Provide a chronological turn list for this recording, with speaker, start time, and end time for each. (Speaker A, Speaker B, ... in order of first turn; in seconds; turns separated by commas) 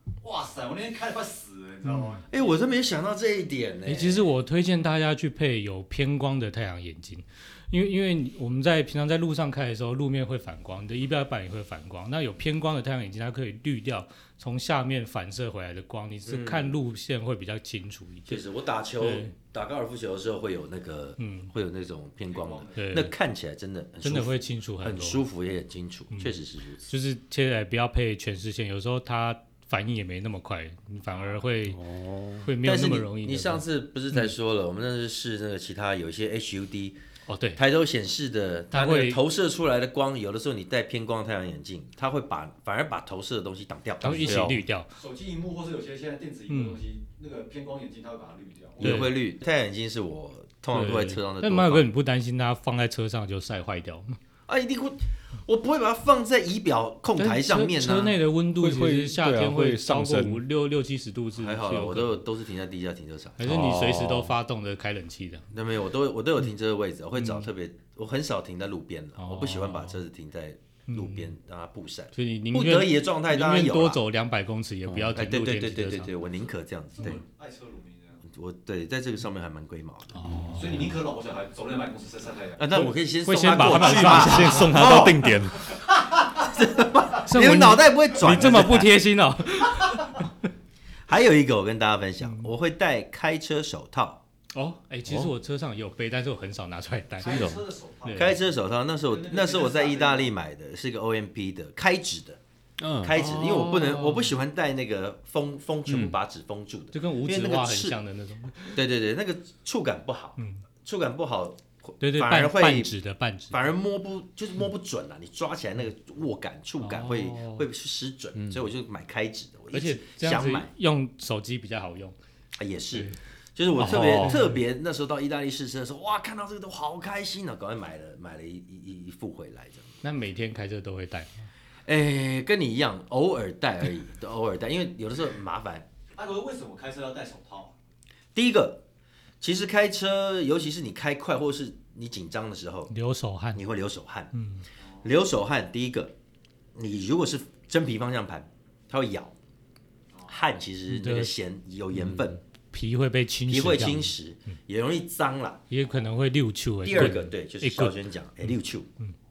Speaker A: 0.2-2.7, Speaker B: 1.9-2.2, Speaker C: 2.3-4.3, Speaker B: 3.9-18.4, Speaker C: 16.3-16.8, Speaker C: 18.3-26.8, Speaker B: 19.0-19.3, Speaker B: 21.2-21.5, Speaker A: 22.3-22.8, Speaker B: 22.8-23.1, Speaker B: 24.0-25.2, Speaker B: 26.8-31.8, Speaker A: 31.1-31.4, Speaker D: 31.7-32.5, Speaker B: 32.4-33.6, Speaker C: 32.6-37.0, Speaker B: 37.3-37.6, Speaker C: 37.6-44.4, Speaker B: 38.7-39.2, Speaker B: 44.0-44.9, Speaker D: 44.1-44.6, Speaker A: 45.0-49.0, Speaker B: 46.5-46.8, Speaker C: 48.8-51.9, Speaker B: 48.8-49.1, Speaker B: 50.7-54.2, Speaker C: 54.5-58.1, Speaker B: 57.2-62.2, Speaker D: 58.6-60.4, Speaker C: 61.4-63.5, Speaker B: 63.4-65.5, Speaker D: 63.4-64.3, Speaker C: 65.5-74.0, Speaker B: 69.2-70.0, Speaker B: 70.9-71.3, Speaker B: 72.1-76.1, Speaker D: 74.9-75.2, Speaker C: 75.2-77.2, Speaker A: 77.0-78.2, Speaker C: 78.3-80.2, Speaker B: 80.2-80.9, Speaker A: 80.5-82.8, Speaker C: 82.6-85.3, Speaker B: 83.2-84.9, Speaker D: 83.5-85.8, Speaker C: 86.4-88.9, Speaker B: 87.3-90.3, Speaker C: 91.1-94.2, Speaker B: 92.2-92.5, Speaker B: 94.5-97.5, Speaker D: 95.1-95.3, Speaker A: 97.2-98.5, Speaker D: 97.3-97.6, Speaker B: 98.0-98.3, Speaker C: 98.2-102.4, Speaker A: 99.1-100.3, Speaker D: 102.8-104.3, Speaker C: 103.0-108.0, Speaker D: 105.9-106.2, Speaker B: 106.9-108.8, Speaker C: 108.7-112.9, Speaker B: 112.0-113.6, Speaker C: 113.5-120.7, Speaker B: 116.9-117.6, Speaker D: 118.4-118.6, Speaker B: 119.7-122.2, Speaker C: 122.6-129.9, Speaker D: 123.8-124.4, Speaker B: 123.9-124.6, Speaker B: 130.0-131.5, Speaker C: 131.9-135.9, Speaker A: 136.2-137.7, Speaker C: 138.3-138.8, Speaker C: 139.4-142.9, Speaker B: 142.9-143.6, Speaker C: 143.6-144.3, Speaker B: 144.3-144.6, Speaker A: 144.8-145.1, Speaker C: 145.0-146.1, Speaker C: 146.8-149.3, Speaker C: 150.3-152.4, Speaker B: 150.9-151.3, Speaker D: 151.9-152.2, Speaker B: 152.7-154.1, Speaker C: 153.5-155.6, Speaker B: 155.7-157.9, Speaker C: 156.8-158.9